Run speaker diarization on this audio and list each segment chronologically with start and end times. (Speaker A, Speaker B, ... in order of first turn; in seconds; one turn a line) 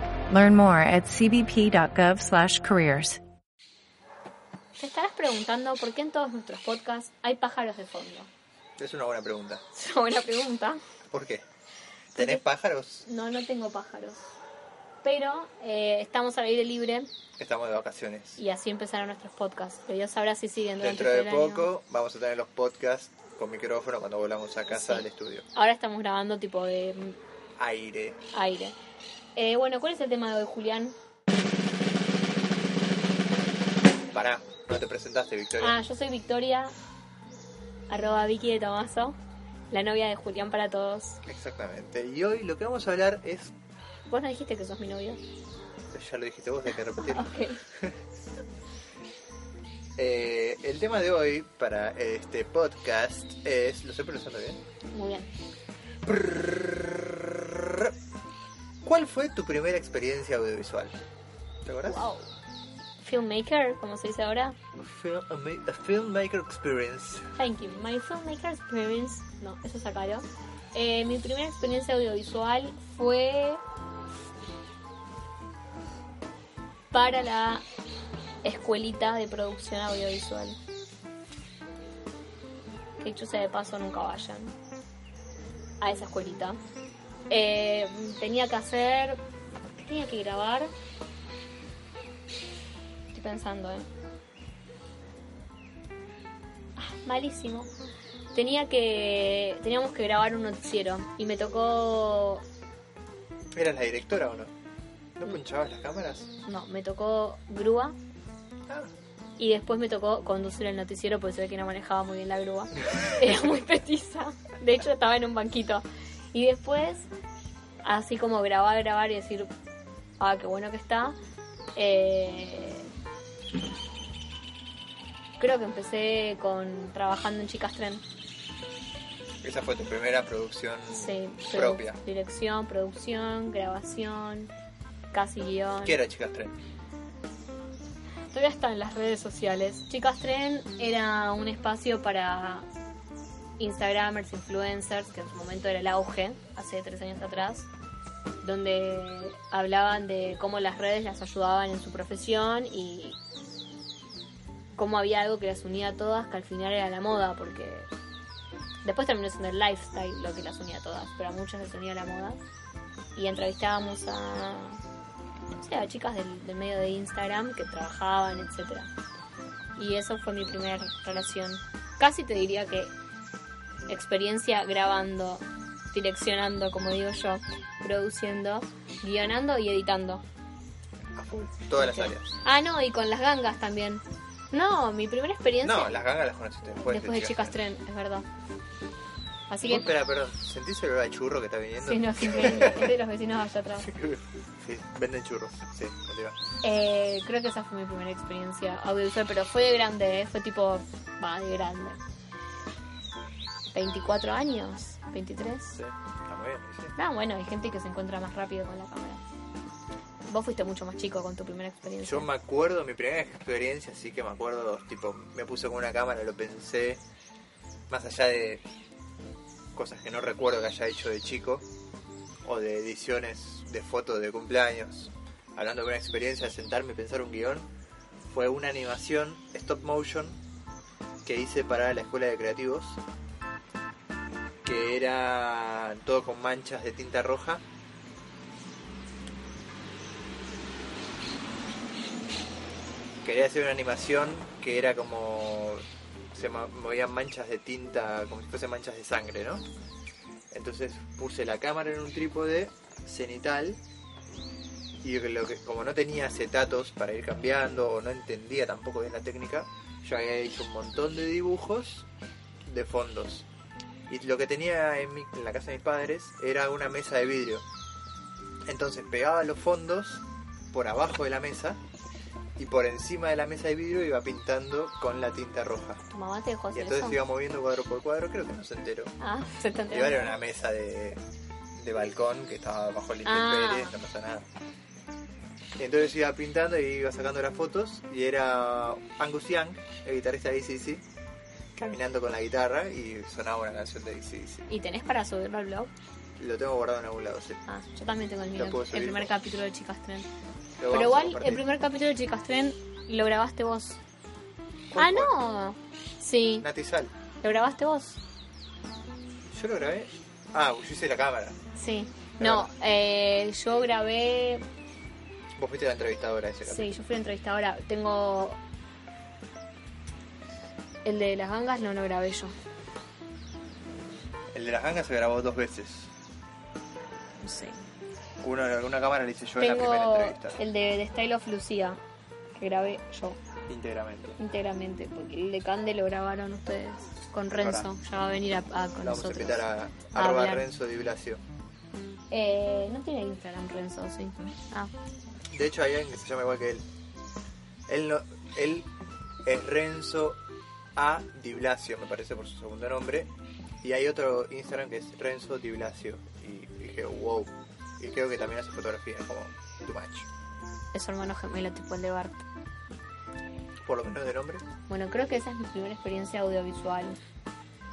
Speaker A: 0.3-3.2
Speaker B: 4.8-8.3
Speaker C: 8.8-9.6
Speaker B: 9.7-10.8
Speaker C: 11.1-11.4
Speaker C: 12.1-13.1
Speaker B: 12.1-12.4
Speaker B: 13.1-14.3
Speaker B: 15.0-17.1
Speaker C: 17.4-18.4
Speaker B: 18.4-21.7
Speaker C: 20.8-25.4
Speaker B: 24.7-27.2
Speaker C: 27.6-28.2
Speaker B: 28.3-28.8
Speaker B: 29.4-30.9
Speaker C: 34.1-35.8
Speaker B: 35.6-36.7
Speaker B: 37.9-39.2
Speaker B: 39.7-41.2
Speaker C: 41.2-43.5
Speaker B: 44.1-45.2
Speaker C: 45.9-47.9
Speaker B: 46.8-47.6
Speaker C: 50.0-54.6
Speaker B: 54.9-55.3
Speaker C: 56.0-57.9
Speaker C: 58.8-61.0
Speaker C: 61.6-62.1
Speaker B: 61.9-62.3
Speaker B: 63.0-64.6
Speaker C: 64.8-67.3
Speaker B: 67.3-73.6
Speaker B: 76.9-77.6
Speaker B: 78.4-80.6
Speaker B: 83.0-84.5
Speaker B: 85.8-86.6
Speaker B: 87.3-89.2
Speaker B: 89.8-90.7
Speaker B: 93.1-93.9
Speaker B: 96.8-97.7
Speaker B: 98.3-102.4
Speaker C: 103.5-104.5
Speaker C: 105.2-106.3
Speaker B: 106.5-108.0
Speaker B: 109.4-117.1
Speaker B: 117.8-119.5
Speaker B: 120.2-121.2
Speaker B: 121.7-122.9
Speaker B: 125.4-128.0
Speaker C: 129.4-132.0
Speaker B: 130.9-134.5
Speaker B: 135.1-136.0
Speaker C: 135.8-136.6
Speaker B: 138.3-142.7
Speaker B: 143.6-147.7
Speaker B: 148.4-153.2
Speaker B: 154.8-157.9
Speaker B: 158.8-162.4
Speaker B: 163.1-164.8
Speaker B: 165.6-168.9
Speaker B: 169.7-172.9
Speaker B: 173.9-180.2
Speaker C: 181.1-182.3
Speaker B: 181.8-186.0
Speaker C: 185.6-187.6
Speaker B: 186.8-188.3
Speaker B: 189.5-189.9
Speaker C: 189.6-192.9
Speaker B: 191.8-193.9
Speaker C: 193.8-196.4
Speaker B: 196.6-202.0
Speaker B: 203.7-205.8
Speaker C: 205.7-206.9
Speaker B: 206.9-209.2
Speaker B: 210.3-212.3
Speaker C: 212.0-217.0
Speaker C: 217.9-218.6
Speaker C: 219.7-221.7
Speaker C: 222.4-227.7
Speaker C: 228.3-230.4
Speaker C: 231.2-233.0
Speaker C: 234.6-237.6
Speaker C: 243.2-249.6
Speaker C: 250.5-253.8
Speaker C: 255.0-262.1
Speaker C: 262.6-263.5
Speaker C: 264.1-267.6
Speaker C: 268.6-271.8
Speaker C: 272.6-276.0
Speaker B: 276.1-277.2
Speaker C: 276.7-279.1
Speaker B: 279.2-280.4
Speaker C: 279.9-281.2
Speaker C: 281.8-284.5
Speaker B: 283.2-284.0
Speaker C: 285.8-291.0
Speaker C: 291.7-294.7
Speaker B: 294.7-295.9
Speaker C: 296.4-297.6
Speaker B: 297.7-300.3
Speaker C: 298.6-299.3
Speaker C: 300.8-301.6
Speaker B: 300.9-304.0
Speaker C: 304.9-305.3
Speaker B: 304.9-306.7
Speaker C: 306.6-307.1
Speaker B: 307.4-308.2
Speaker C: 309.5-311.6
Speaker B: 311.8-314.6
Speaker C: 312.4-312.7
Speaker C: 315.6-317.0
Speaker B: 316.6-318.6
Speaker B: 321.0-322.5
Speaker C: 324.5-326.1
Speaker B: 327.4-327.8
Speaker C: 328.4-330.6
Speaker B: 329.6-332.0
Speaker B: 332.6-333.4
Speaker C: 333.7-334.4
Speaker B: 334.4-340.7
Speaker C: 337.5-337.9
Speaker C: 339.0-341.4
Speaker B: 342.3-344.9
Speaker C: 345.5-346.8
Speaker C: 347.9-348.9
Speaker C: 349.4-350.4
Speaker C: 350.9-353.3
Speaker C: 353.8-360.3
Speaker B: 360.9-362.4
Speaker C: 363.8-364.6
Speaker B: 364.9-367.2